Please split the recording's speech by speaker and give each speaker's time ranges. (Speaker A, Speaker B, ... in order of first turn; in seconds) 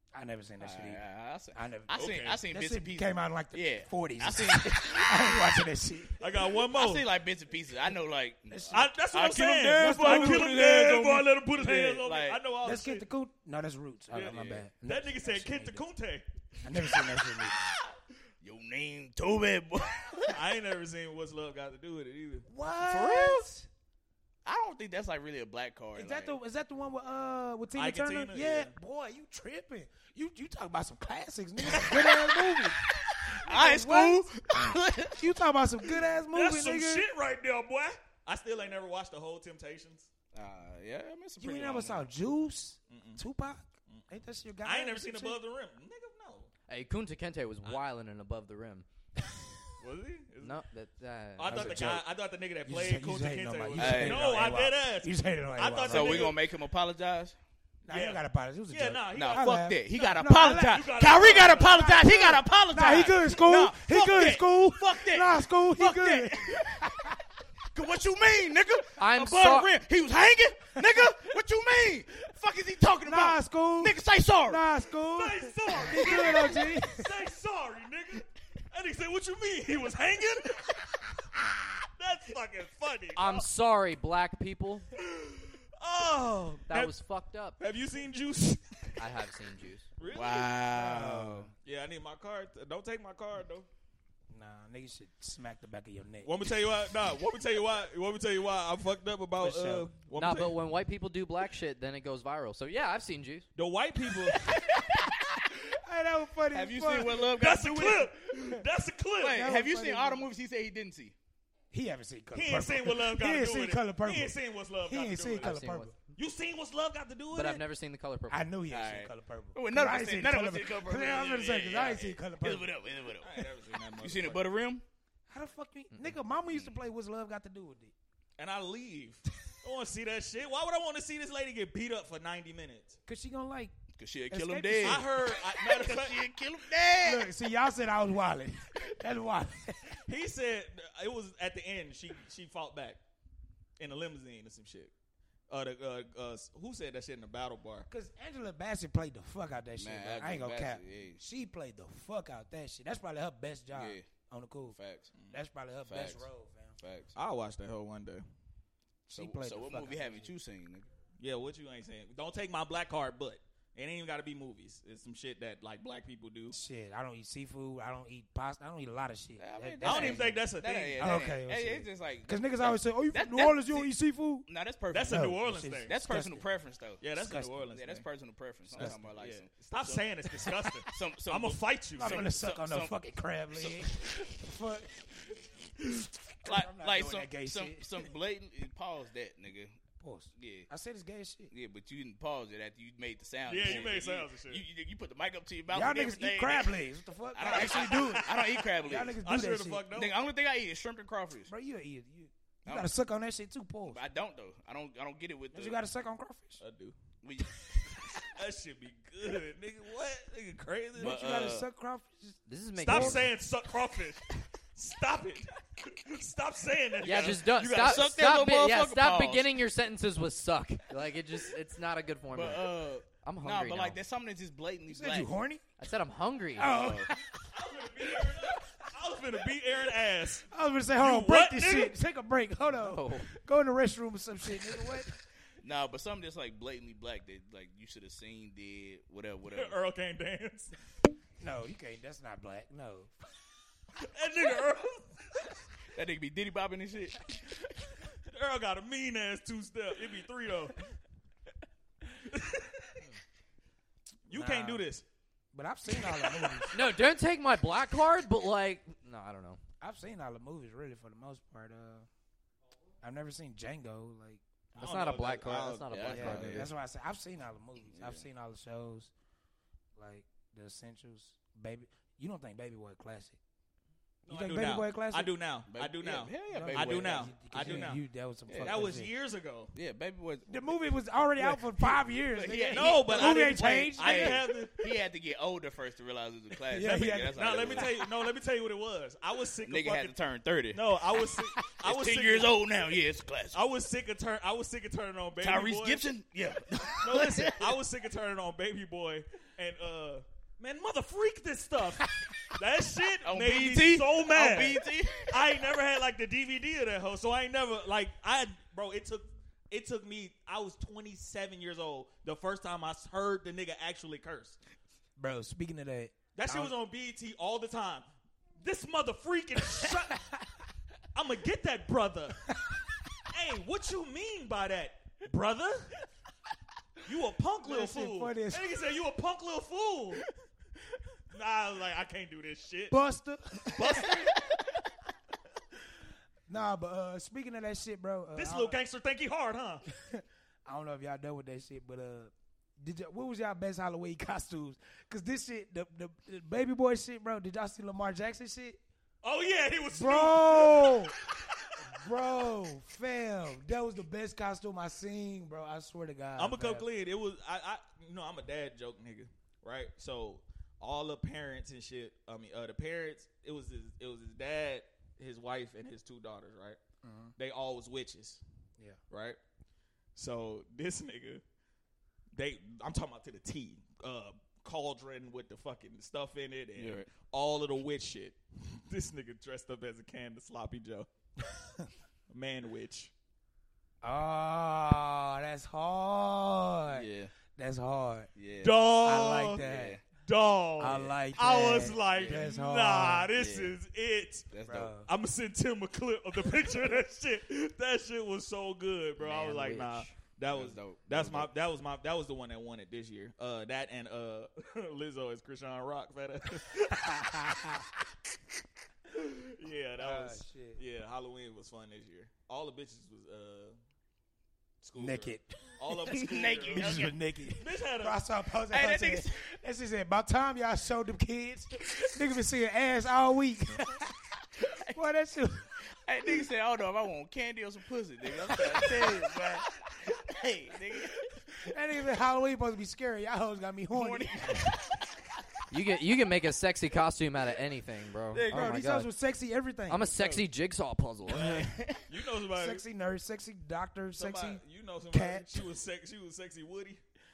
Speaker A: 0.1-1.0, 1.5-6.1, 8.5-9.0, 9.7-10.6, 12.6-15.9, 16.6-17.7, 22.5-23.7, 26.0-32.8, 33.4-37.1, 41.4-45.4, 51.5-52.1, 52.6-56.4, 57.9-67.2, 73.0-77.1, 90.7-91.5, 94.3-96.3, 99.4-99.9, 104.5-107.3, 109.3-110.3, 111.7-116.0, 118.3-122.7, 125.3-127.9, 133.1-133.7, 134.3-135.1, 137.0-140.0, 147.9-154.8, 155.3-156.8, 159.1-160.3, 166.5-174.5, 175.1-176.4, 177.1-177.6, 178.7-179.0, 182.0-185.4, 186.4-188.1, 190.0-191.5, 195.7-198.3, 198.8-199.9, 201.5-204.0, 205.5-206.6, 211.0-213.2, 224.9-225.6, 226.6-227.4, 230.5-235.1, 241.4-243.1, 254.3-254.8, 255.5-256.8, 259.8-262.1, 263.0-264.4, 266.1-269.1, 270.0-273.4, 274.3-275.4, 276.5-279.1, 280.5-284.6, 286.7-287.9, 315.2-316.7, 327.6-328.8, 332.9-334.3, 336.5-338.8, 339.9-348.8, 349.9-351.1, 351.9-356.9, 367.0-367.3, 384.0-388.3, 389.0-390.0, 390.8-393.3, 394.6-395.1, 406.9-407.9, 410.0-410.8, 415.0-416.2, 416.7-424.1, 424.9-425.6, 428.7-429.3, 431.6-434.8, 438.4-440.1, 442.5-445.6
Speaker B: 0.6-5.6, 6.7-12.4, 14.1-14.7, 18.4-20.4, 22.8-23.5, 24.5-26.4, 33.1-35.4, 40.3-42.0, 53.8-54.4, 55.9-57.4, 59.1-67.0, 67.7-74.6, 90.1-91.5, 106.5-108.1, 109.2-111.2, 118.7-123.5, 124.0-124.8, 134.0-137.3, 149.8-151.2, 153.7-154.1, 154.7-155.1, 155.8-156.3, 156.8-157.2, 159.2-160.9, 169.4-173.9, 174.5-177.0, 177.7-183.0, 183.5-183.8, 186.4-189.8, 190.4-190.7, 191.5-196.8, 197.3-199.2, 199.9-201.5, 202.7-202.9, 203.9-205.8, 207.2-207.6, 211.0-211.7, 217.6-219.6, 222.3-225.3, 226.6-227.1, 235.6-239.8, 246.0-247.4, 265.9-266.7, 267.8-268.3, 275.7-277.9, 278.5-278.8, 279.7-280.7, 281.4-288.0, 289.6-290.9, 291.7-293.6, 295.4-297.8, 303.2-305.6, 376.8-377.1, 386.9-387.3, 388.4-388.8, 389.6-390.0, 392.2-392.5, 393.3-393.8, 394.5-394.9, 400.5-401.5, 416.1-417.2, 418.7-419.4, 426.0-431.2, 433.9-434.8, 438.3-438.8, 440.1-440.5, 441.3-442.0
Speaker C: 1.9-2.4, 6.2-7.1, 8.7-13.1, 14.1-16.2, 20.3-22.5, 27.8-28.7, 36.3-40.1, 42.9-43.2, 44.6-46.5, 49.8-50.6, 51.4-56.4, 57.9-62.3, 75.1-80.8, 82.0-83.5, 85.0-87.0, 87.6-88.9, 90.0-90.5, 91.7-93.7, 96.2-100.6, 103.6-104.4, 107.4-109.4, 112.3-115.5, 116.2-117.6, 121.6-121.9, 123.2-124.5, 128.4-133.0, 134.8-136.2, 140.1-143.0, 143.8-144.9, 145.5-147.9, 157.2-158.2, 161.2-166.6, 169.8-171.3, 174.9-175.9, 177.0-178.1, 178.7-182.3, 193.5-194.6, 197.4-200.1, 206.6-206.9, 208.2-211.2, 212.8-218.1, 227.5-230.5, 231.0-231.9, 239.5-240.7, 244.0-245.1, 248.3-250.8, 252.3-252.9, 254.3-255.1, 256.2-256.5, 264.8-266.4, 274.3-278.1, 278.6-279.7, 282.7-284.9, 286.9-290.2, 290.7-292.6, 293.5-296.1, 297.0-314.6, 316.4-318.1, 318.6-320.2, 321.1-322.4, 323.3-325.9, 327.1-330.3, 331.3-332.9, 333.8-334.4, 338.4-339.8, 349.2-351.1, 356.4-366.8, 367.4-368.4, 369.1-369.4, 370.2-371.4, 372.3-381.1, 382.3-383.1, 388.6-389.6, 390.2-394.5, 395.1-407.0, 409.1-413.8, 414.8-418.2, 442.1-442.8, 444.2-447.0
Speaker D: 46.7-48.9, 50.4-51.8, 69.0-69.7, 83.2-84.9, 86.7-87.6, 89.0-89.9, 100.2-103.5, 115.4-115.9, 117.3-118.5, 212.5-213.3, 217.0-224.0, 225.8-226.8, 232.8-233.3, 256.7-259.6, 264.8-266.7, 399.2-400.1, 435.7-439.1, 439.9-441.7